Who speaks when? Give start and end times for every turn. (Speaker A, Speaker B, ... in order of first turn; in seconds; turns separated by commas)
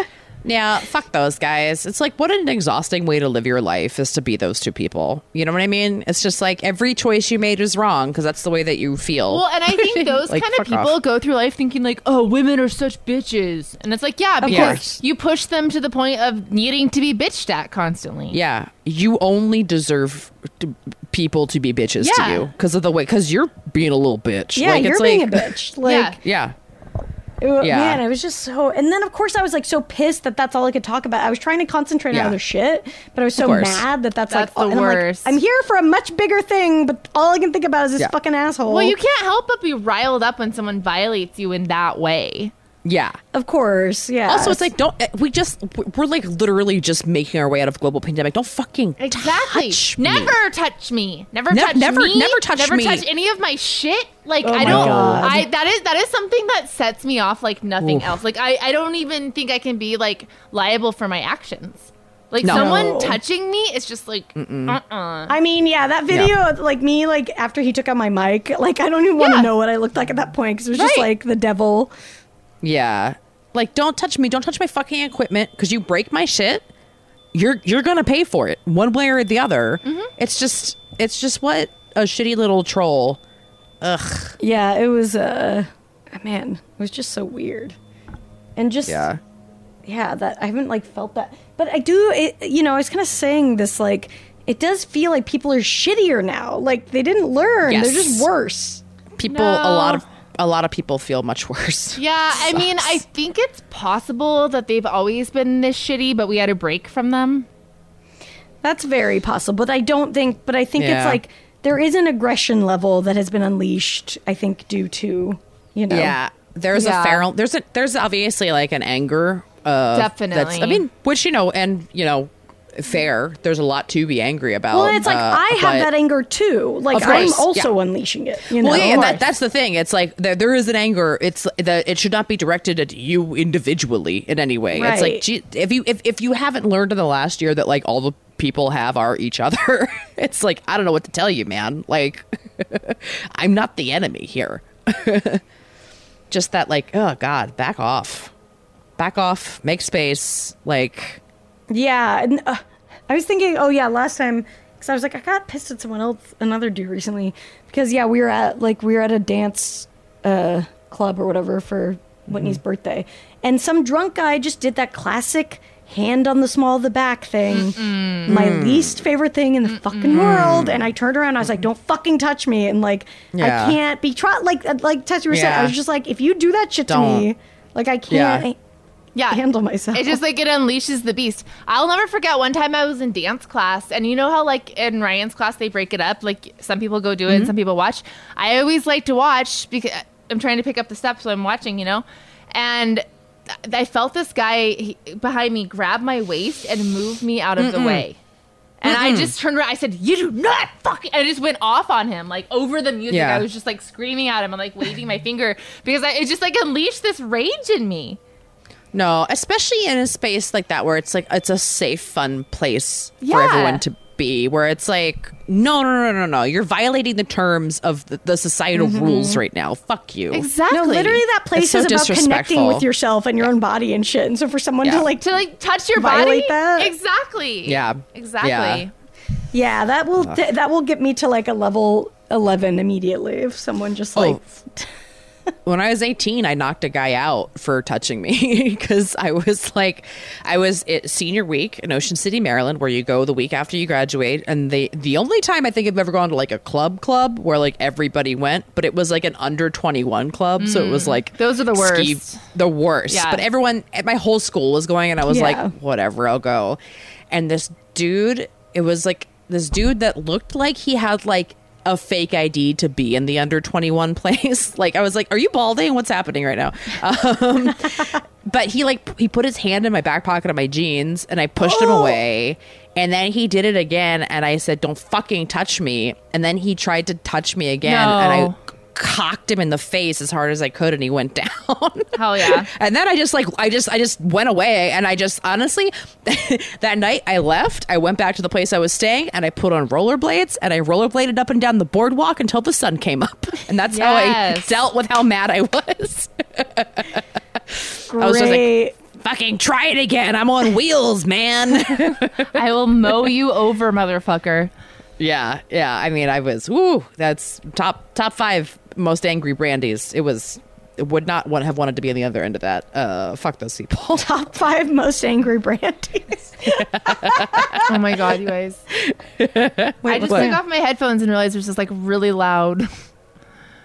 Speaker A: 0.4-10.9, Speaker B: 9.3-18.4, Speaker C: 14.4-15.0, Speaker A: 14.4-14.8, Speaker A: 18.3-25.6, Speaker B: 22.0-22.5, Speaker C: 24.5-26.2, Speaker B: 25.9-26.2, Speaker A: 26.2-26.6, Speaker C: 27.4-39.0, Speaker A: 27.6-28.0, Speaker A: 32.1-32.4, Speaker A: 33.4-33.9, Speaker B: 34.3-35.4, Speaker B: 38.7-42.5, Speaker A: 42.9-43.2, Speaker C: 43.3-44.7, Speaker A: 44.3-50.4, Speaker B: 49.0-65.3, Speaker A: 51.5-53.1, Speaker C: 54.4-55.4, Speaker A: 54.6-55.4, Speaker A: 57.8-58.1, Speaker A: 62.4-62.9, Speaker C: 62.5-63.2, Speaker A: 64.4-64.8, Speaker C: 65.3-71.9, Speaker B: 69.2-69.5, Speaker B: 70.7-71.1, Speaker A: 72.6-76.7, Speaker A: 77.3-83.2, Speaker B: 79.8-80.1, Speaker A: 83.8-84.4, Speaker C: 84.4-87.8, Speaker C: 88.6-89.1, Speaker A: 88.9-89.2, Speaker C: 89.8-98.8, Speaker A: 97.7-98.3, Speaker A: 99.2-103.0, Speaker B: 99.2-100.0, Speaker B: 102.0-107.5, Speaker C: 108.6-116.2, Speaker A: 110.8-111.2, Speaker A: 115.9-125.9, Speaker B: 116.7-117.3, Speaker B: 119.9-120.8, Speaker C: 124.7-129.2, Speaker A: 126.9-127.7, Speaker A: 128.6-145.4, Speaker B: 128.7-129.2, Speaker C: 134.7-135.2, Speaker A: 146.3-148.3, Speaker A: 149.0-151.2, Speaker C: 151.7-178.6, Speaker A: 162.3-162.6, Speaker B: 167.5-168.4, Speaker A: 168.3-169.1, Speaker B: 169.6-170.6, Speaker A: 170.1-170.9, Speaker A: 173.3-173.8, Speaker A: 175.3-175.8, Speaker A: 176.9-177.3, Speaker A: 178.1-178.5, Speaker B: 179.2-179.4, Speaker C: 179.3-180.2, Speaker B: 179.9-198.2, Speaker A: 187.3-187.5, Speaker A: 197.6-198.1, Speaker B: 198.8-208.2, Speaker A: 198.8-199.3, Speaker A: 203.1-203.5, Speaker A: 208.9-220.5, Speaker B: 213.2-213.8, Speaker C: 218.7-219.4, Speaker B: 220.3-221.2, Speaker C: 220.7-225.4, Speaker A: 221.5-222.9, Speaker A: 224.8-225.1, Speaker B: 225.2-228.9, Speaker C: 225.9-226.9, Speaker A: 227.7-228.8, Speaker C: 229.5-234.9, Speaker A: 234.2-234.4, Speaker A: 235.7-302.5, Speaker B: 250.6-252.4, Speaker B: 253.1-253.5, Speaker C: 255.3-255.7, Speaker C: 271.6-272.2, Speaker B: 277.8-278.6, Speaker B: 282.1-282.7, Speaker B: 293.9-294.7, Speaker C: 298.1-298.9, Speaker B: 302.5-304.7, Speaker A: 305.2-314.3, Speaker C: 314.1-317.9, Speaker A: 316.7-317.8, Speaker B: 317.9-318.8, Speaker A: 318.9-320.6, Speaker C: 320.0-320.6, Speaker B: 320.1-322.9